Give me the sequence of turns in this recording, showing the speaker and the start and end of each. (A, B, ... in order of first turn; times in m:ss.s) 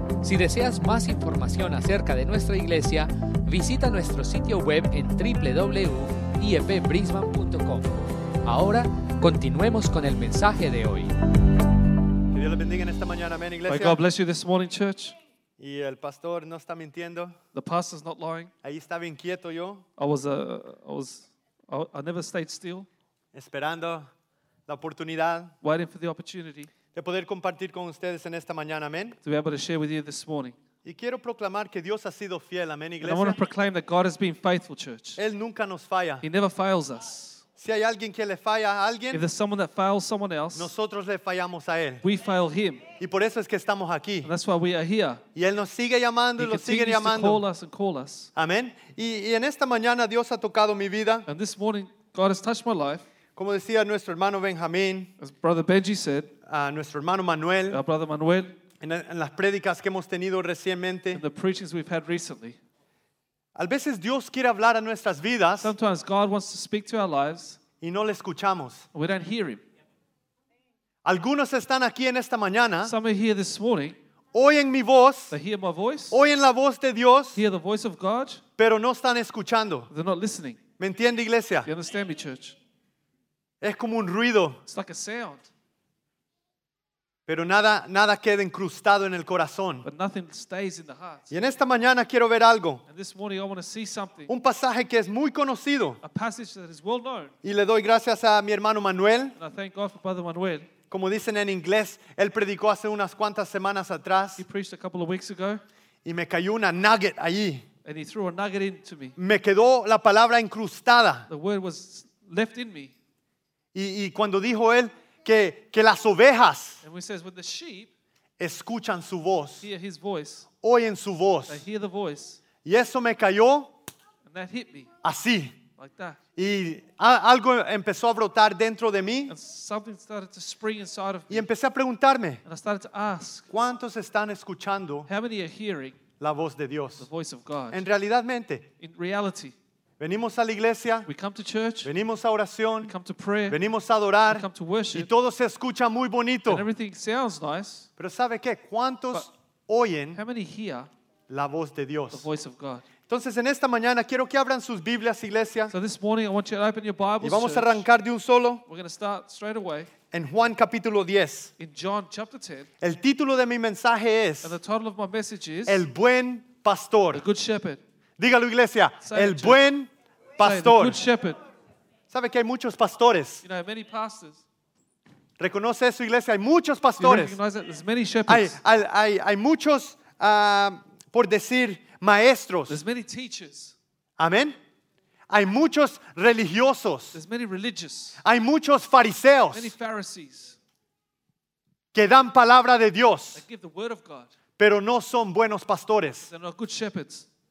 0:00.2-0:07.9 A
0:08.4-0:11.1 A
0:12.3-0:14.0 B
0:13.7-0:15.2 C
0:15.6-0:17.4 B
0:17.5-0:18.5 C
0:18.6-0:19.8 B
0:20.0-0:22.9 C
0:23.3-0:24.1 B
0:24.7-0:25.5 B
0:25.6-0:26.7 C
0:26.9-0:29.2 B
0:29.2-0:30.6 C
0:30.8-0:33.4 B
0:33.0-0:35.2 C
0:35.2-0:36.2 B
0:36.2-0:37.4 C
0:37.6-0:39.2 B
0:39.1-0:40.7 C
0:40.6-0:42.0 B
0:42.0-0:42.8 C
0:43.0-0:44.3 B
0:44.2-0:45.2 C
0:45.4-0:47.4 B
0:46.4-0:48.3 C
0:48.4-0:51.3 B
0:51.3-0:53.0 C
0:53.4-0:55.1 B
0:55.2-0:56.3 C
0:56.5-0:57.8 B
0:57.7-0:58.6 C
0:58.8-1:01.2 B
1:01.1-1:02.6 C
1:03.6-1:05.7 B
1:05.6-1:07.6 C
1:07.8-1:08.9 B
1:08.9-1:09.6 C
1:11.0-1:12.9 B
1:12.8-1:14.0 C
1:14.3-1:15.3 B
1:15.3-1:16.2 C
1:16.1-1:17.4 B
1:17.4-1:18.4 C
1:18.6-1:19.9 B
1:19.9-1:20.6 C
1:20.8-1:21.7 B
1:21.7-1:22.6 C
1:23.6-1:24.6 B
1:24.7-1:25.5 C
1:27.3-1:29.8 B
1:29.8-1:31.4 C
1:31.3-1:32.8 B
1:32.9-1:34.3 C
1:34.3-1:36.0 B
1:36.0-1:37.3 C
1:37.4-1:39.4 B
1:39.4-1:40.7 C
1:40.9-1:44.4 B
1:44.4-1:45.6 C
1:46.0-1:47.6 B
1:47.8-1:49.2 C
1:49.2-1:51.3 B
1:51.3-1:52.9 C
1:53.7-1:56.8 B
1:56.8-1:57.9 C
1:58.4-1:59.7 B
1:59.6-2:00.5 C
2:00.6-2:01.6 B
2:01.5-2:02.4 C
2:02.6-2:03.7 B
2:04.3-2:04.9 C
2:05.0-2:05.6 B
2:05.8-2:06.2 C
2:06.4-2:09.4 B
2:09.3-2:11.5 C
2:11.3-2:12.4 B
2:12.4-2:13.5 C
2:13.5-2:15.1 B
2:15.1-2:16.0 C
2:16.2-2:17.1 B
2:17.0-2:17.8 C
2:17.7-2:18.7 B
2:18.8-2:19.6 C
2:20.0-2:21.1 B
2:21.1-2:21.9 C
2:21.8-2:22.9 B
2:22.8-2:23.6 C
2:23.5-2:26.7 B
2:24.3-2:25.1 C
2:26.5-2:27.9 C
2:28.0-2:30.2 B
2:30.1-2:30.9 C
2:31.3-2:32.3 B
2:32.1-2:32.8 C
2:33.1-2:35.7 B
2:35.7-2:37.8 C
2:37.2-2:38.6 B
2:38.7-2:39.9 C
2:40.1-2:41.5 B
2:41.6-2:42.7 C
2:42.8-2:44.6 B
2:44.4-2:45.8 C
2:45.7-2:47.2 B
2:47.1-2:47.8 C
2:48.2-2:51.0 B
2:49.0-2:49.6 C
2:50.4-2:51.4 C
2:52.1-2:53.4 B
2:53.4-2:54.4 C
2:55.4-2:57.4 B
2:57.0-2:58.6 C
2:58.3-3:02.8 B
3:02.7-3:03.8 C
3:04.2-3:04.6 B
3:05.3-3:07.2 B
3:07.1-3:08.2 C
3:08.2-3:09.7 B
3:09.5-3:10.6 C
3:11.9-3:13.4 B
3:13.3-3:14.3 C
3:14.6-3:16.3 B
3:16.2-3:17.3 C